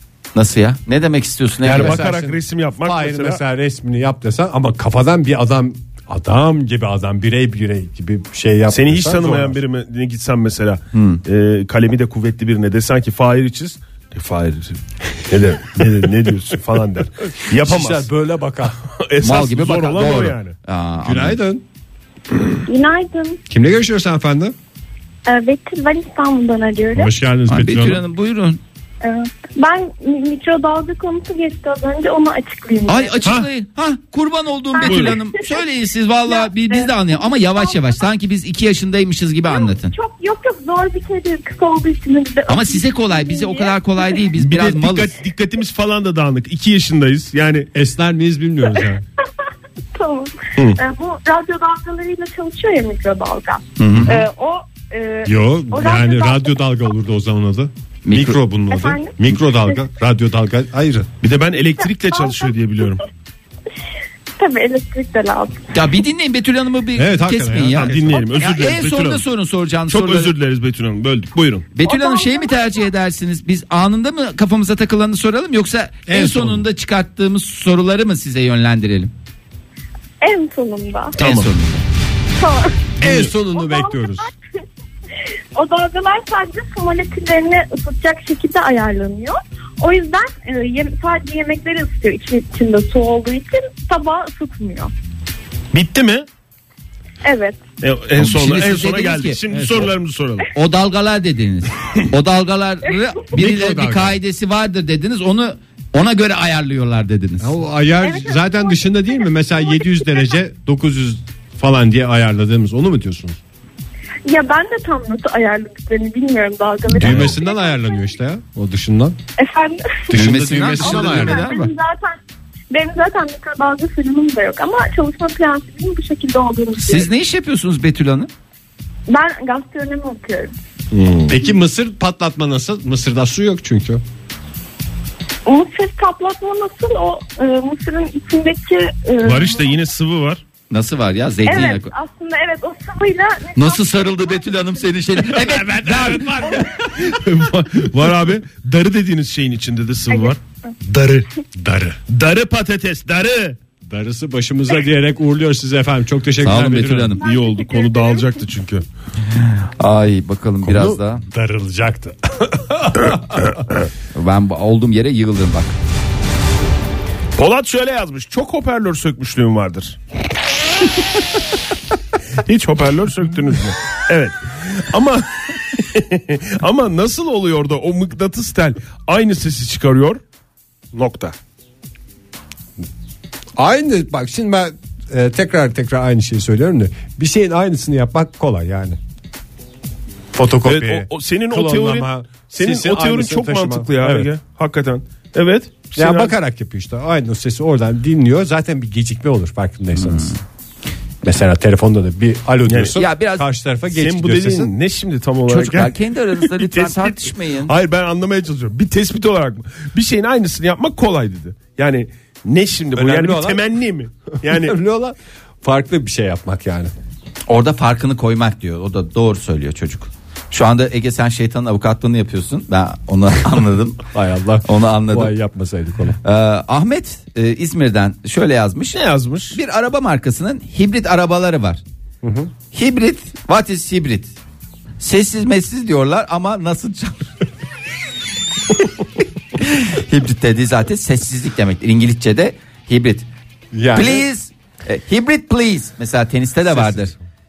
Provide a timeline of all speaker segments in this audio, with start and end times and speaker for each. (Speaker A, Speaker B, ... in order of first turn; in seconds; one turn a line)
Speaker A: 0.3-2.0
Speaker B: 1.6-3.4
Speaker C: 1.6-9.6
Speaker B: 8.7-18.1
Speaker A: 10.9-11.2
Speaker C: 17.6-18.8
Speaker B: 19.0-20.5
Speaker A: 19.2-21.4
Speaker C: 21.0-21.6
Speaker D: 22.6-23.4
Speaker C: 23.5-24.5
Speaker D: 25.2-27.1
Speaker C: 26.9-28.0
Speaker A: 27.5-28.6
Speaker D: 29.0-33.3
Speaker A: 32.9-39.9
Speaker D: 34.7-35.6
Speaker B: 34.8-35.2
Speaker D: 36.3-38.1
Speaker D: 39.5-44.3
Speaker A: 42.5-45.1
Speaker B: 44.4-47.7
Speaker C: 47.7-49.0
Speaker D: 49.9-56.6
Speaker A: 53.8-54.2
Speaker C: 55.2-61.1
Speaker A: 58.0-58.4
Speaker D: 58.7-59.8
Speaker B: 61.2-63.0
Speaker D: 61.8-62.5
Speaker D: 64.4-65.6
Speaker A: 65.7-70.3
Speaker C: 67.0-68.2
Speaker B: 67.7-69.2
Speaker B: 69.9-71.7
Speaker A: 71.7-79.1
Speaker D: 71.8-72.9
Speaker C: 76.1-76.7
Speaker D: 80.2-81.2
Speaker B: 81.2-81.5
Speaker A: 81.2-81.8
Speaker D: 82.4-82.8
Speaker C: 83.0-84.3
Speaker B: 83.0-83.3
Speaker D: 83.4-84.3
Speaker D: 85.5-94.9
Speaker B: 95.7-96.2
Speaker D: 97.2-97.6
Speaker B: 97.8-100.5
Speaker A: 98.2-99.4
Speaker C: 99.5-99.9
Speaker A: 100.5-107.5
Speaker C: 103.3-104.2
Speaker C: 107.4-113.4
Speaker D: 108.0-110.4
Speaker D: 114.3-118.2
Speaker C: 116.9-119.2
Speaker B: 117.0-117.3
Speaker D: 119.4-122.2
Speaker C: 120.1-121.7
Speaker A: 120.1-121.7
Speaker D: 122.7-127.1
Speaker A: 126.8-128.3
Speaker D: 129.1-130.5
Speaker B: 130.9-131.3
Speaker C: 131.3-134.0
Speaker D: 135.4-139.8
Speaker B: 139.2-140.4
Speaker A: 140.7-141.9
Speaker D: 141.4-144.8
Speaker A: 143.6-146.6
Speaker B: 145.3-151.3
Speaker C: 145.5-146.7
Speaker D: 150.1-150.7
Speaker C: 151.6-152.0
Speaker B: 152.1-153.6
Speaker C: 153.8-157.2
Speaker A: 156.4-157.2
Speaker B: 157.2-158.8
Speaker D: 157.3-158.3
Speaker A: 159.3-161.2
Speaker C: 160.6-163.6
Speaker A: 164.1-165.7
Speaker B: 167.4-170.0
Speaker B: 172.4-180.2
Speaker B: 180.9-181.3
Speaker C: 183.6-189.0
Speaker C: 190.3-194.3
Speaker B: 190.7-196.3
Speaker C: 195.9-200.3
Speaker A: 200.0-200.4
Speaker C: 201.2-204.7
Speaker B: 202.7-203.0
Speaker A: 203.0-203.4
Speaker B: 203.9-214.7
Speaker A: 205.5-207.7
Speaker C: 212.9-213.6
Speaker C: 214.4-216.9
Speaker A: 217.5-224.0
Speaker C: 224.1-226.2
Speaker A: 224.6-225.3
Speaker A: 226.2-231.8
Speaker B: 228.9-229.6
Speaker C: 232.2-232.5
Speaker A: 232.7-234.3
Speaker A: 235.0-237.3
Speaker A: 239.6-243.2
Speaker C: 243.7-244.3
Speaker A: 243.9-247.1
Speaker C: 246.7-247.2